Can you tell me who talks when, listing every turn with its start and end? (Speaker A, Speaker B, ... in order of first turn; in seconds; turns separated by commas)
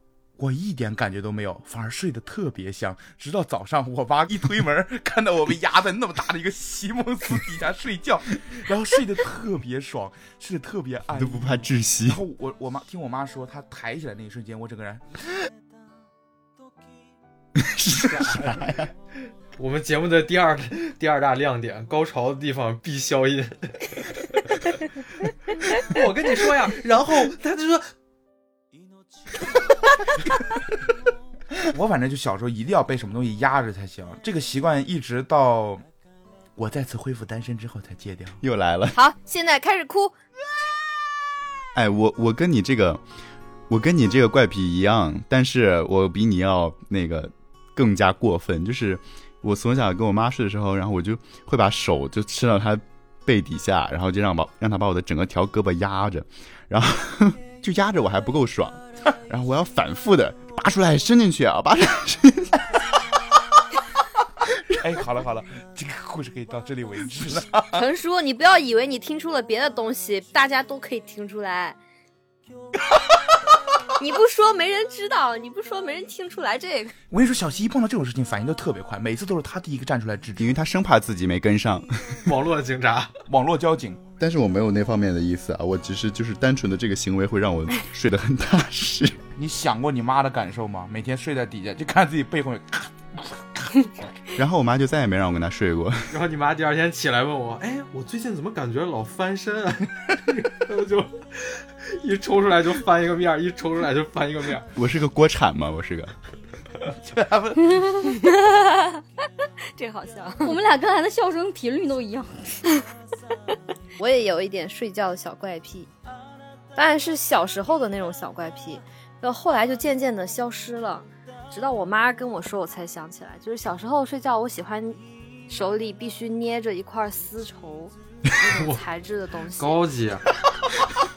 Speaker A: 0.4-15.1, Speaker B: 11.1-12.2, Speaker B: 17.6-18.9, Speaker C: 18.0-18.6, Speaker C: 19.6-24.4, Speaker C: 25.6-27.9, Speaker A: 31.6-35.8, Speaker A: 36.6-38.4, Speaker B: 38.4-39.0, Speaker D: 38.9-40.1, Speaker B: 41.7-43.0, Speaker B: 43.7-62.6, Speaker A: 64.7-67.8, Speaker D: 67.7-71.8, Speaker D: 74.0-76.9, Speaker A: 77.1-80.5, Speaker B: 80.4-82.2, Speaker C: 82.2-83.1, Speaker A: 83.3-84.0, Speaker B: 84.2-89.2, Speaker A: 89.3-94.0, Speaker B: 94.3-96.1, Speaker C: 96.1-104.7, Speaker B: 104.7-106.1, Speaker A: 106.9-108.2, Speaker D: 108.1-110.6, Speaker E: 110.4-112.6, Speaker D: 114.0-115.9, Speaker D: 116.7-129.8, Speaker C: 128.5-128.8, Speaker C: 129.6-130.2